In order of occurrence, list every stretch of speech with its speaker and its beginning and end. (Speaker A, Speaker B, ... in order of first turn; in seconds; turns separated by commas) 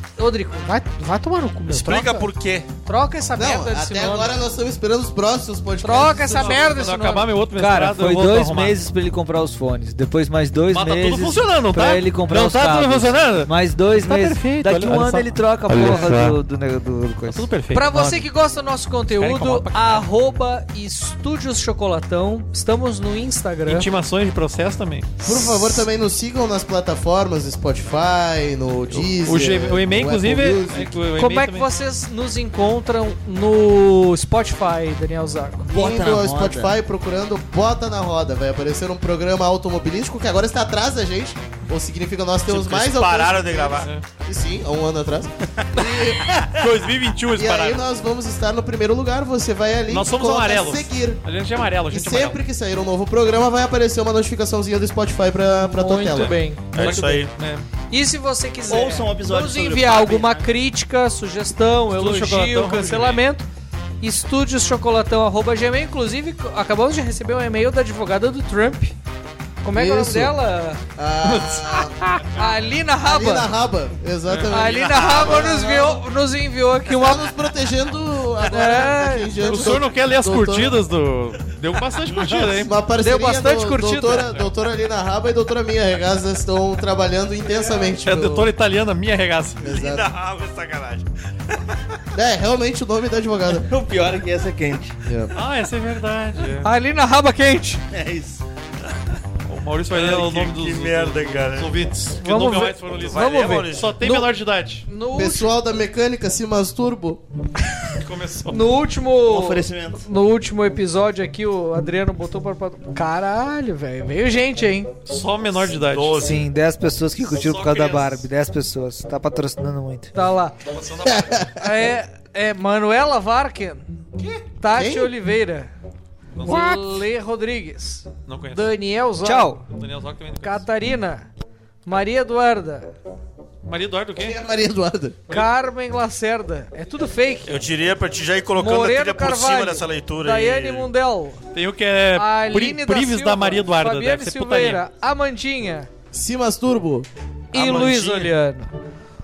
Speaker A: 0.2-2.3, Speaker B: 1.7-2.7, Speaker A: 2.9-4.3, Speaker C: 3.3-6.6, Speaker A: 5.8-7.3, Speaker D: 6.2-8.8, Speaker E: 7.5-17.5, Speaker D: 10.7-16.4, Speaker A: 15.8-16.2, Speaker D: 17.2-18.2, Speaker A: 17.7-23.9, Speaker D: 19.1-20.1, Speaker D: 23.6-25.1, Speaker A: 25.2-25.9, Speaker C: 25.2-31.0, Speaker D: 28.9-31.7, Speaker A: 31.1-35.7, Speaker F: 35.7-36.7, Speaker C: 35.7-51.2, Speaker B: 42.5-43.9, Speaker D: 46.4-47.8, Speaker D: 49.9-52.4, Speaker C: 51.9-56.4, Speaker A: 55.6-56.8, Speaker D: 56.1-57.6, Speaker B: 56.7-57.3, Speaker A: 57.9-63.5, Speaker F: 58.7-60.5, Speaker D: 61.9-63.2, Speaker A: 64.0-68.9, Speaker A: 69.6-73.5, Speaker C: 69.7-70.3, Speaker C: 71.0-71.9, Speaker C: 73.0-76.0, Speaker D: 74.3-74.5, Speaker A: 74.5-77.3, Speaker C: 76.9-80.8, Speaker A: 78.4-79.3, Speaker D: 79.4-82.7, Speaker C: 82.3-88.5, Speaker A: 83.0-84.3, Speaker D: 84.0-84.5, Speaker D: 88.0-89.7, Speaker C: 89.6-90.1, Speaker B: 89.7-91.6, Speaker C: 92.1-93.7, Speaker F: 93.6-94.9, Speaker C: 95.0-95.3, Speaker D: 95.3-96.7, Speaker A: 96.6-97.8, Speaker F: 97.9-98.4, Speaker D: 99.5-104.8, Speaker B: 99.9-101.7, Speaker A: 102.2-104.3, Speaker B: 102.9-104.0, Speaker A: 104.8-105.5, Speaker C: 105.1-107.2, Speaker D: 107.9-108.6, Speaker A: 108.5-114.9, Speaker F: 109.2-110.0, Speaker D: 115.0-116.3, Speaker B: 115.8-116.4, Speaker E: 116.2-120.1, Speaker D: 117.3-118.2, Speaker A: 120.1-120.6, Speaker D: 120.7-121.4, Speaker A: 121.4-123.8, Speaker A: 124.6-125.7, Speaker C: 124.7-125.1, Speaker D: 126.4-126.8, Speaker A: 126.4-129.6, Speaker D: 128.2-128.7, Speaker E: 129.2-129.6, Speaker D: 129.7-130.7, Speaker A: 130.4-131.3, Speaker A: 131.8-132.9, Speaker D: 133.6-134.4, Speaker C: 134.2-135.2, Speaker A: 135.3-137.6, Speaker B: 137.5-140.9, Speaker A: 138.6-141.4, Speaker D: 141.5-144.8, Speaker A: 142.1-145.9, Speaker C: 146.1-147.1, Speaker A: 147.5-148.7, Speaker B: 147.5-148.3